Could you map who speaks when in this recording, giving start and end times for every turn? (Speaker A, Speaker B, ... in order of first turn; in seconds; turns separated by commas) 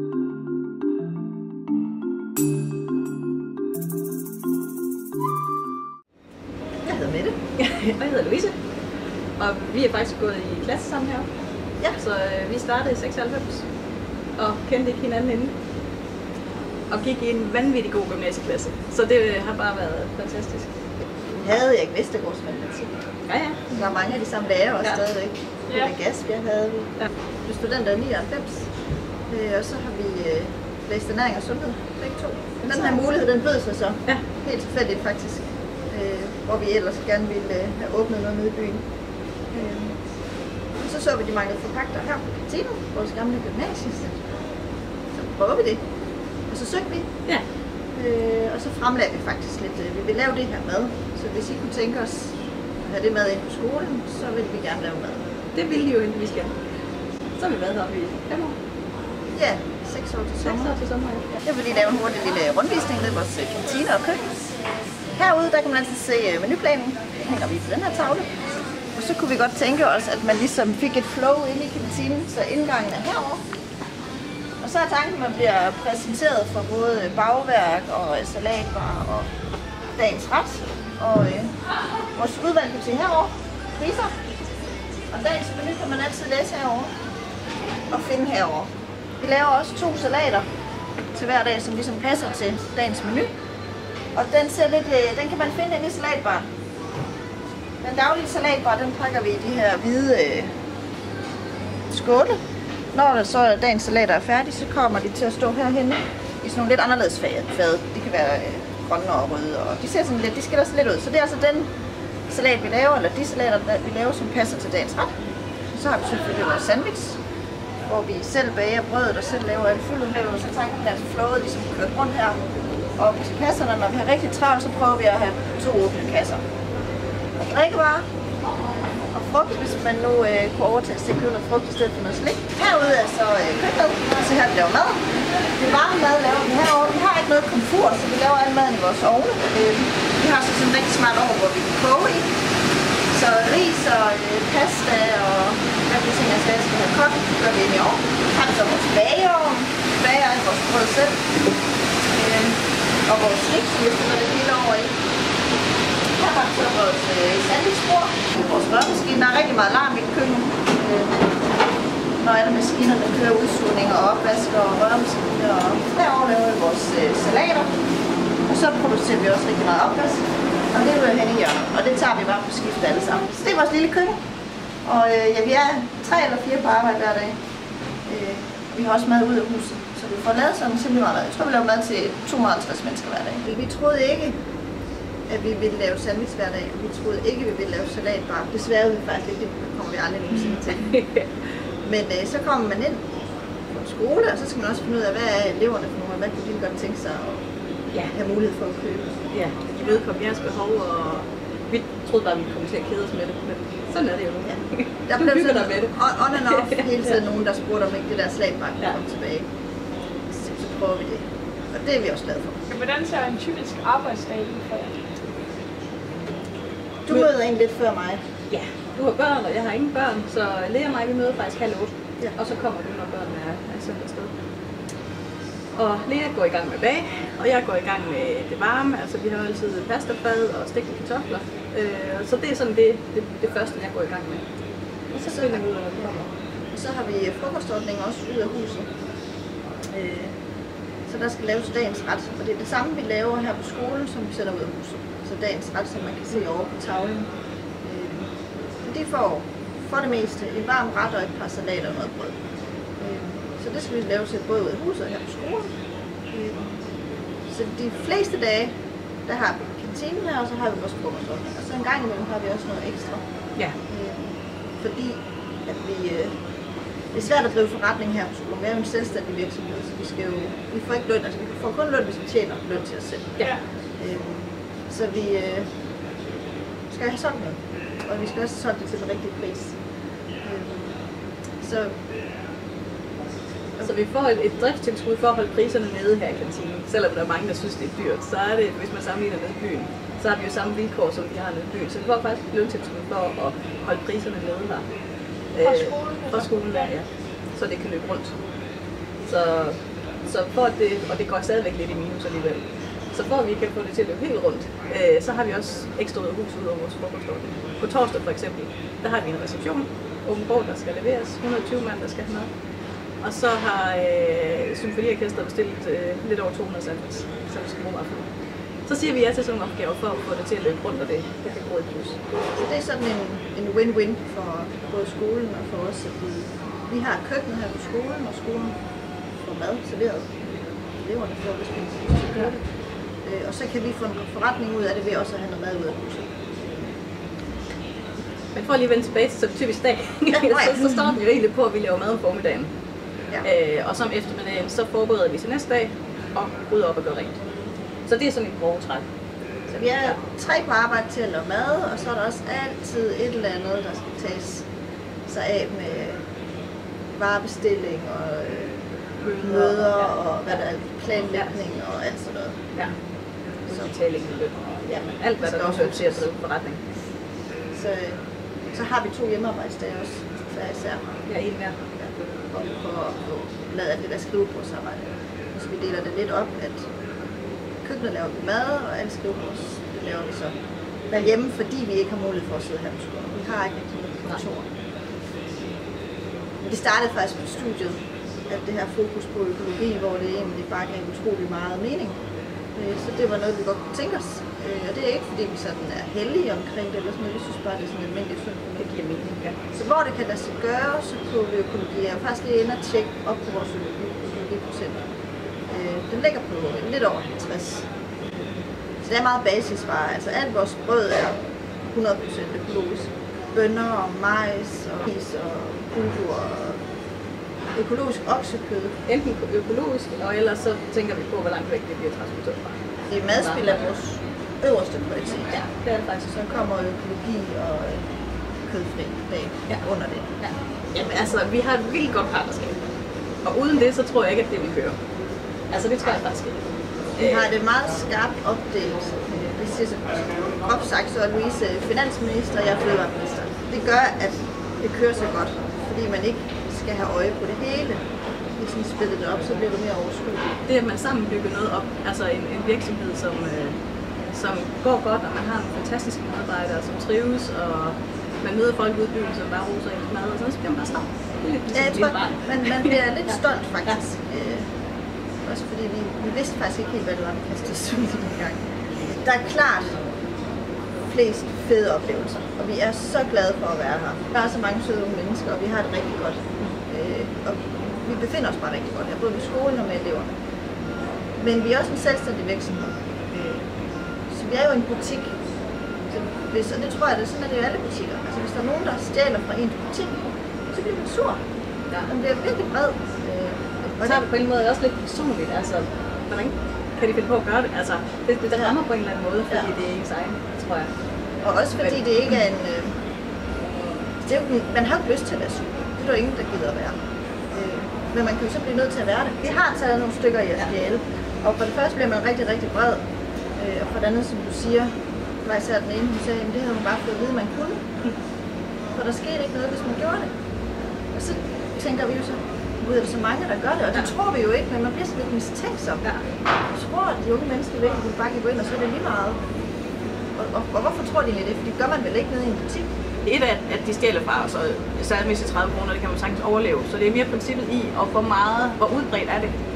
Speaker A: 6.8-7.4, Speaker B: 7.6-8.6, Speaker B: 9.4-11.3, Speaker B: 11.9-13.6, Speaker B: 14.4-15.5, Speaker B: 16.9-20.7, Speaker A: 21.3-23.0, Speaker B: 23.3-23.8, Speaker A: 23.7-28.7, Speaker A: 29.3-38.8, Speaker A: 39.5-40.0, Speaker A: 40.8-44.2, Speaker A: 45.1-45.8, Speaker A: 46.5-47.1, Speaker A: 47.9-55.2, Speaker B: 55.5-56.5, Speaker B: 57.4-58.5, Speaker A: 59.3-60.8, Speaker B: 60.4-61.2, Speaker A: 61.4-64.4, Speaker A: 65.2-68.3, Speaker A: 68.9-73.4, Speaker A: 74.6-79.3, Speaker A: 80.0-81.5, Speaker A: 82.1-84.2, Speaker A: 85.1-86.9, Speaker A: 87.9-90.4, Speaker A: 91.1-93.3, Speaker A: 94.1-96.5, Speaker A: 97.8-100.5, Speaker A: 101.9-102.4, Speaker A: 102.9-111.7, Speaker A: 112.3-115.2, Speaker A: 115.7-117.2, Speaker A: 117.9-122.4, Speaker A: 123.0-126.4, Speaker A: 127.3-128.0, Speaker A: 129.1-142.3, Speaker A: 143.1-151.3, Speaker A: 152.1-154.9, Speaker A: 156.2-161.3, Speaker A: 162.2-167.7, Speaker A: 168.5-174.2, Speaker A: 174.8-177.4, Speaker A: 178.1-184.4, Speaker A: 185.3-191.0, Speaker B: 190.7-191.3, Speaker A: 191.8-193.1, Speaker A: 193.7-197.4, Speaker A: 198.0-199.1, Speaker B: 199.3-207.2, Speaker A: 205.1-209.5, Speaker A: 210.3-212.6, Speaker C: 212.7-215.0, Speaker A: 217.1-218.2, Speaker B: 218.5-224.3, Speaker B: 225.8-234.4, Speaker B: 235.1-236.3, Speaker A: 235.2-238.9, Speaker B: 239.9-240.3, Speaker A: 241.1-247.3, Speaker A: 247.8-248.3, Speaker A: 248.8-252.3, Speaker A: 253.0-255.7, Speaker A: 256.3-256.8, Speaker A: 257.5-258.7, Speaker A: 259.2-263.2, Speaker A: 263.9-266.4, Speaker A: 267.1-275.7, Speaker A: 276.9-279.8, Speaker A: 280.4-281.0, Speaker A: 281.6-281.9, Speaker B: 283.8-294.8, Speaker B: 295.5-298.3, Speaker C: 295.6-296.9, Speaker B: 299.2-312.5, Speaker B: 313.2-318.3, Speaker B: 318.9-322.2, Speaker A: 322.5-328.7, Speaker A: 329.4-332.7, Speaker A: 333.2-336.4, Speaker B: 338.5-342.7, Speaker A: 340.3-341.1, Speaker B: 343.4-347.4, Speaker B: 348.1-349.0, Speaker A: 349.7-354.6, Speaker A: 355.2-356.2, Speaker A: 357.1-358.8, Speaker B: 359.2-360.1, Speaker A: 359.4-362.6, Speaker B: 363.7-366.8, Speaker A: 365.4-366.2, Speaker A: 367.7-368.2, Speaker A: 368.7-371.1, Speaker B: 371.3-371.8, Speaker A: 371.9-376.9, Speaker A: 377.8-380.5, Speaker A: 381.1-384.7, Speaker A: 386.6-392.2, Speaker A: 392.7-398.8, Speaker B: 398.8-399.6, Speaker A: 399.7-405.0, Speaker A: 405.7-407.9, Speaker A: 409.0-416.8, Speaker A: 417.7-419.0, Speaker B: 419.1-423.8, Speaker A: 423.1-425.6, Speaker B: 425.5-426.4, Speaker A: 426.3-428.0, Speaker A: 428.6-430.3, Speaker B: 430.4-432.8, Speaker B: 433.4-435.0, Speaker B: 435.7-436.6, Speaker B: 437.2-437.5, Speaker A: 437.2-448.0, Speaker A: 448.6-450.6, Speaker B: 450.6-453.8, Speaker B: 454.3-463.0, Speaker A: 461.7-464.7, Speaker A: 465.4-470.0, Speaker A: 471.0-480.3, Speaker A: 481.4-483.6, Speaker A: 484.3-485.4, Speaker A: 486.1-491.4, Speaker A: 492.1-494.2, Speaker B: 493.9-500.9, Speaker A: 501.4-503.0, Speaker A: 504.2-507.0, Speaker A: 507.5-513.0, Speaker A: 513.5-514.9, Speaker A: 515.4-517.8, Speaker A: 518.9-520.3, Speaker A: 521.1-526.1, Speaker A: 526.7-529.4, Speaker A: 530.4-532.9, Speaker B: 533.2-539.6